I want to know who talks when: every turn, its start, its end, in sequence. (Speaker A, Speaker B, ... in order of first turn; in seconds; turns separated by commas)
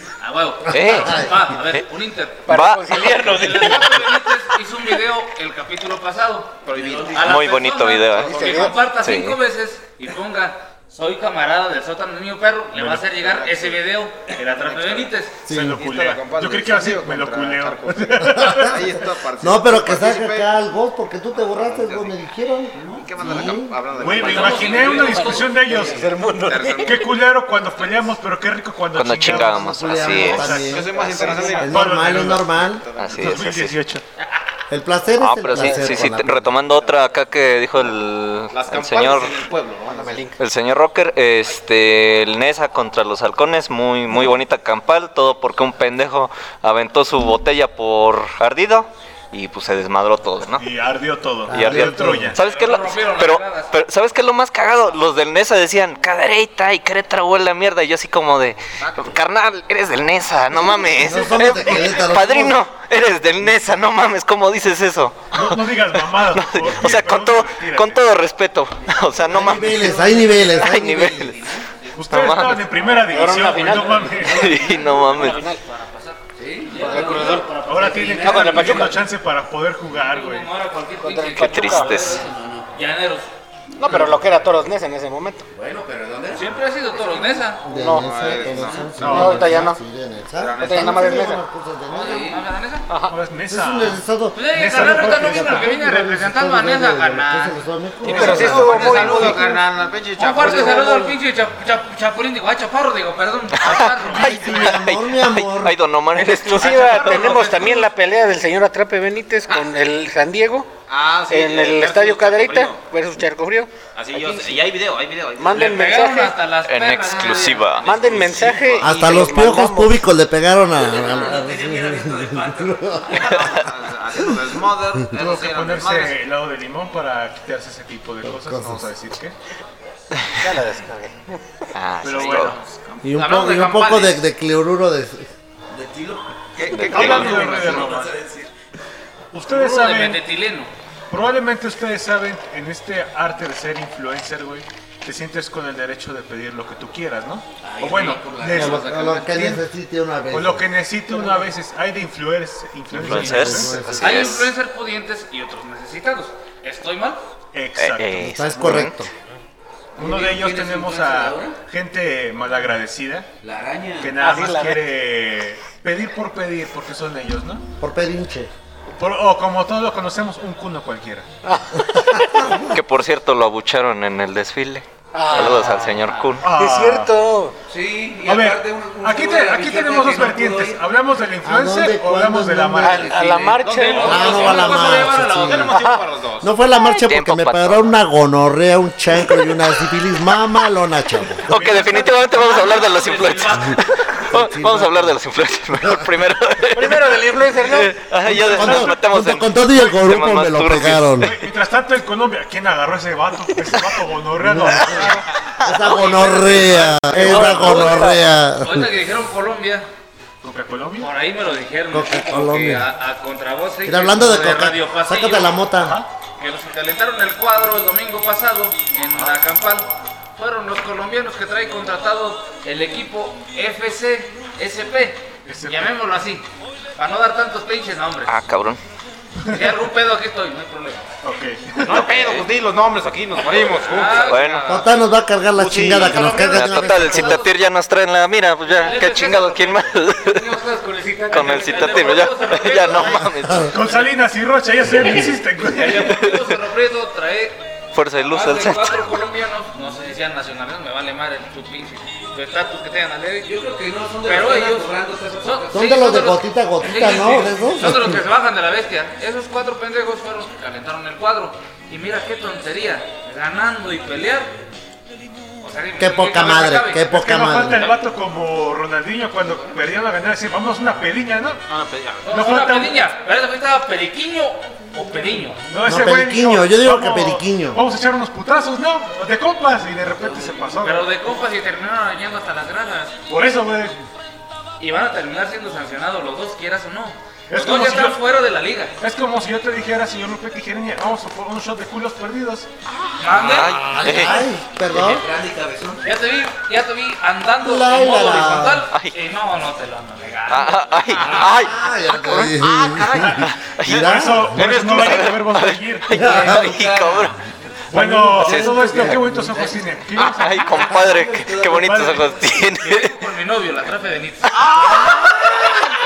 Speaker A: 0.2-15.4, Speaker B: 0.7-1.8, Speaker C: 0.8-1.3, Speaker D: 2.5-4.2, Speaker B: 2.5-2.9, Speaker E: 6.7-7.6, Speaker F: 6.7-7.5, Speaker B: 7.2-9.4, Speaker E: 8.1-8.8, Speaker D: 8.2-8.8, Speaker G: 12.7-13.1, Speaker E: 13.1-15.1, Speaker C: 15.5-15.8, Speaker G: 15.5-18.8, Speaker E: 15.7-20.5, Speaker C: 18.3-23.8, Speaker E: 21.4-22.2, Speaker F: 22.8-23.1, Speaker E: 22.8-27.1, Speaker G: 24.0-26.1, Speaker A: 24.1-25.5, Speaker D: 24.6-27.0, Speaker G: 26.8-34.0, Speaker B: 28.9-30.6, Speaker C: 29.3-30.9, Speaker E: 30.4-33.4, Speaker D: 31.1-31.7, Speaker C: 31.6-32.9, Speaker B: 33.0-33.8, Speaker C: 34.7-36.5, Speaker B: 35.2-39.4, Speaker D: 35.5-36.0, Speaker E: 36.7-37.1, Speaker E: 38.5-40.3, Speaker D: 39.9-40.4, Speaker B: 40.4-50.6, Speaker G: 50.6-52.4, Speaker C: 51.5-52.4, Speaker B: 51.5-71.5, Speaker A: 52.4-53.7, Speaker E: 58.8-59.2, Speaker C: 60.9-62.6, Speaker G: 65.3-68.0, Speaker C: 69.3-71.4, Speaker F: 69.7-71.7, Speaker G: 71.9-74.6, Speaker B: 72.1-72.8, Speaker D: 73.0-75.6, Speaker F: 74.2-74.9, Speaker B: 74.3-75.4, Speaker A: 75.0-78.8, Speaker F: 76.4-78.8, Speaker D: 76.8-77.5, Speaker G: 77.6-80.5, Speaker D: 78.1-79.0, Speaker A: 79.9-83.3, Speaker D: 81.0-82.0, Speaker B: 81.4-82.2, Speaker F: 81.8-82.8, Speaker D: 83.8-85.5, Speaker F: 85.5-87.4, Speaker A: 86.3-87.6, Speaker D: 87.6-88.4, Speaker C: 87.7-92.3, Speaker E: 87.9-89.7, Speaker F: 88.6-88.9, Speaker G: 89.0-89.6, Speaker D: 89.0-89.8, Speaker E: 90.4-91.3, Speaker D: 90.6-91.4, Speaker F: 91.9-92.4, Speaker A: 92.0-92.9, Speaker D: 92.9-93.2, Speaker G: 93.1-95.7, Speaker C: 93.5-98.8, Speaker A: 94.3-99.5, Speaker D: 98.0-99.6, Speaker E: 98.1-101.0, Speaker A: 100.2-104.5, Speaker D: 100.4-101.1, Speaker B: 103.6-107.2, Speaker G: 103.7-104.8, Speaker C: 104.1-105.8, Speaker D: 106.1-110.7, Speaker E: 106.6-107.9, Speaker A: 107.0-107.6, Speaker E: 110.9-112.9, Speaker D: 111.3-114.6, Speaker E: 114.0-116.0, Speaker D: 115.4-116.4, Speaker A: 115.5-117.8, Speaker B: 116.7-117.9, Speaker E: 117.1-119.6, Speaker D: 117.8-120.0, Speaker C: 118.8-123.3, Speaker F: 120.8-123.5, Speaker E: 123.1-126.2, Speaker G: 125.1-129.4, Speaker C: 128.2-128.9, Speaker D: 130.4-131.4, Speaker B: 131.7-132.6, Speaker G: 132.0-132.6, Speaker E: 132.1-134.1, Speaker C: 133.0-135.3, Speaker A: 133.2-134.1, Speaker F: 135.7-138.5, Speaker E: 136.6-137.9, Speaker B: 136.7-137.3, Speaker G: 136.9-138.2, Speaker G: 139.3-140.2, Speaker A: 139.5-140.7, Speaker G: 141.1-149.6, Speaker F: 147.6-148.9, Speaker A: 148.5-149.3, Speaker C: 148.5-150.7, Speaker G: 150.3-153.9, Speaker B: 153.0-154.5, Speaker C: 153.0-154.4, Speaker A: 154.0-157.2, Speaker G: 157.5-158.9, Speaker B: 157.8-159.0, Speaker C: 158.3-159.1, Speaker F: 160.0-161.6, Speaker G: 160.0-163.3, Speaker F: 163.4-164.2, Speaker G: 164.0-167.7, Speaker D: 164.2-164.9, Speaker C: 167.8-168.5, Speaker G: 168.9-171.3, Speaker D: 171.4-172.7, Speaker B: 172.7-176.5, Speaker D: 175.1-177.6, Speaker G: 176.4-177.2, Speaker F: 177.7-180.8, Speaker G: 178.2-183.2, Speaker C: 181.4-183.2, Speaker D: 182.8-184.6, Speaker F: 182.9-183.7, Speaker E: 183.2-186.5, Speaker A: 183.7-185.8, Speaker C: 184.0-185.8, Speaker D: 185.7-186.1, Speaker C: 186.4-191.5, Speaker B: 186.9-187.9, Speaker G: 191.5-192.2, Speaker B: 191.5-201.3, Speaker A: 192.2-194.2, Speaker C: 194.3-195.2, Speaker C: 195.8-196.1, Speaker D: 196.7-198.0, Speaker G: 198.2-199.0, Speaker C: 198.5-201.3, Speaker G: 201.1-205.3, Speaker C: 204.4-208.9, Speaker A: 205.7-208.1, Speaker G: 206.2-208.0, Speaker D: 207.2-208.2, Speaker A: 208.6-209.9, Speaker G: 210.4-211.1, Speaker A: 211.0-215.6, Speaker C: 211.9-212.9, Speaker C: 213.8-216.0, Speaker G: 215.8-216.1, Speaker A: 216.4-226.4, Speaker G: 225.5-225.9, Speaker A: 227.0-228.3, Speaker B: 228.3-228.8, Speaker G: 229.4-229.8, Speaker A: 229.5-231.1, Speaker G: 231.2-232.2, Speaker E: 231.8-234.9, Speaker B: 232.0-232.4, Speaker A: 233.8-234.6, Speaker B: 234.3-234.8, Speaker C: 234.7-237.5, Speaker E: 235.5-236.6, Speaker A: 236.1-237.5, Speaker B: 236.2-240.5, Speaker A: 238.7-243.7, Speaker D: 240.6-242.2, Speaker B: 241.3-243.8, Speaker G: 243.6-246.2, Speaker A: 245.6-247.6, Speaker B: 246.1-246.6, Speaker B: 247.9-249.1, Speaker A: 248.2-253.5, Speaker F: 253.4-255.9, Speaker A: 254.2-264.6, Speaker C: 255.7-258.2, Speaker A: 265.6-267.1, Speaker C: 266.0-267.8, Speaker G: 267.1-271.6, Speaker E: 271.7-272.3, Speaker A: 272.3-275.6, Speaker G: 272.3-273.0, Speaker G: 275.7-281.1, Speaker C: 275.9-277.8, Speaker A: 280.8-283.1, Speaker G: 283.3-284.0, Speaker A: 284.8-288.9, Speaker G: 287.5-288.2, Speaker G: 289.0-292.7, Speaker A: 293.2-294.4, Speaker B: 293.3-294.4, Speaker F: 293.4-296.0, Speaker C: 294.0-295.3, Speaker A: 296.0-301.2, Speaker C: 297.6-298.9, Speaker B: 300.5-302.6, Speaker E: 301.2-301.5, Speaker C: 301.2-304.6, Speaker E: 302.5-303.5, Speaker B: 303.2-307.4, Speaker G: 303.9-306.3, Speaker F: 306.1-307.3, Speaker C: 306.1-306.8, Speaker G: 307.9-310.9, Speaker C: 307.9-309.6, Speaker B: 308.4-309.1, Speaker F: 309.5-309.8, Speaker B: 310.2-313.2, Speaker F: 310.8-312.0, Speaker G: 311.6-312.4, Speaker A: 312.7-314.6, Speaker B: 314.6-315.7, Speaker E: 314.6-315.2